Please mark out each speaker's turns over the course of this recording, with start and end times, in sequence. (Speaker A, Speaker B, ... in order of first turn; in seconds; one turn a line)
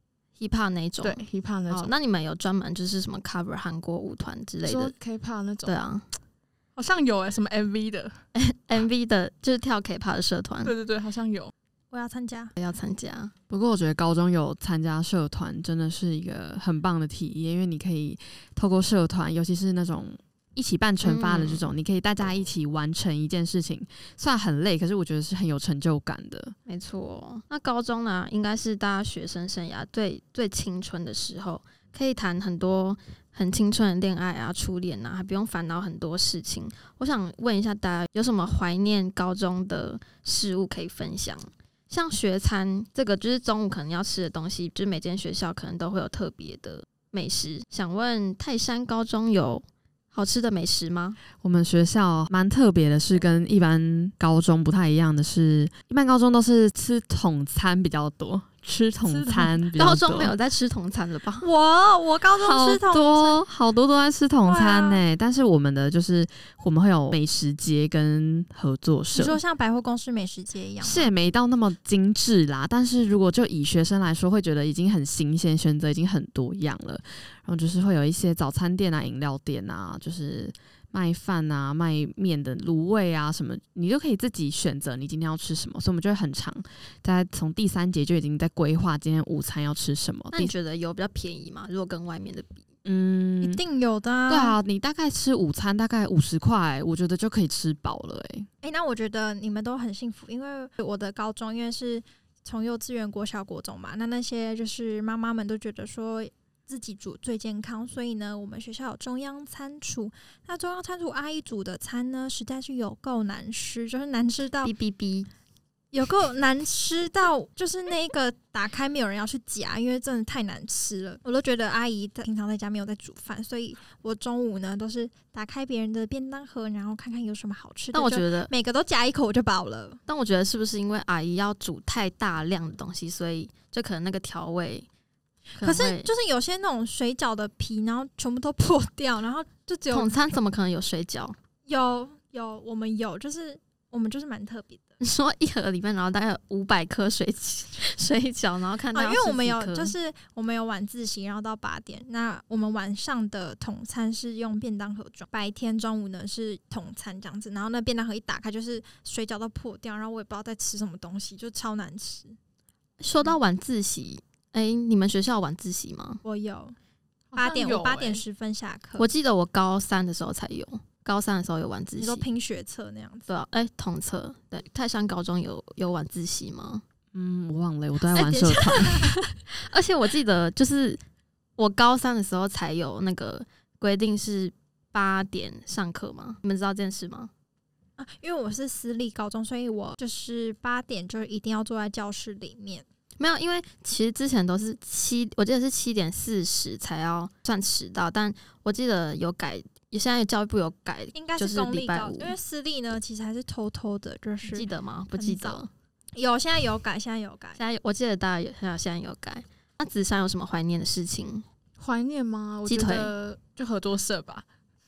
Speaker A: 0.4-4.9
Speaker B: 1.0-1.9
Speaker B: 4.6-5.7
Speaker A: 5.7-6.0
Speaker B: 6.8-8.2
Speaker A: 8.3-10.7
Speaker B: 10.6-11.5
Speaker C: 11.9-12.5
Speaker A: 12.6-13.3
Speaker D: 13.5-26.5
Speaker A: 21.0-21.7
Speaker A: 26.6-51.2
Speaker D: 51.4-60.3
Speaker B: 59.0-59.5
Speaker A: 59.8-61.5
Speaker C: 61.4-63.4
Speaker D: 62.4-69.4
Speaker C: 64.4-65.0
Speaker C: 69.1-71.1
Speaker D: 70.8-90.5
Speaker A: 90.3-92.6
Speaker D: 92.8-93.6
Speaker C: 93.4-94.5
Speaker D: 94.3-98.5
Speaker C: 98.6-114.7
Speaker A: 114.6-115.3
Speaker C: 115.9-130.0
Speaker A: 127.9-128.5
Speaker A: 130.1-134.9
Speaker A: 135.6-136.1
Speaker C: 135.6-140.3
Speaker A: 139.9-141.4
Speaker C: 141.7-144.9
Speaker A: 145.0-149.9
Speaker C: 148.9-162.3
Speaker A: 163.0-166.2
Speaker C: 166.2-166.8
Speaker B: 167.3-168.2
Speaker C: 167.3-169.1
Speaker A: 169.0-172.2
Speaker C: 172.0-173.3
Speaker A: 173.3-176.8
Speaker D: 177.1-179.1
Speaker C: 178.1-179.1
Speaker A: 178.1-181.0
Speaker A: 181.6-187.3
Speaker C: 188.0-192.8
Speaker A: 193.2-202.3
Speaker C: 201.1-207.6
Speaker A: 204.5-205.7
Speaker A: 207.6-211.4
Speaker B: 211.8-214.4
Speaker A: 212.7-213.1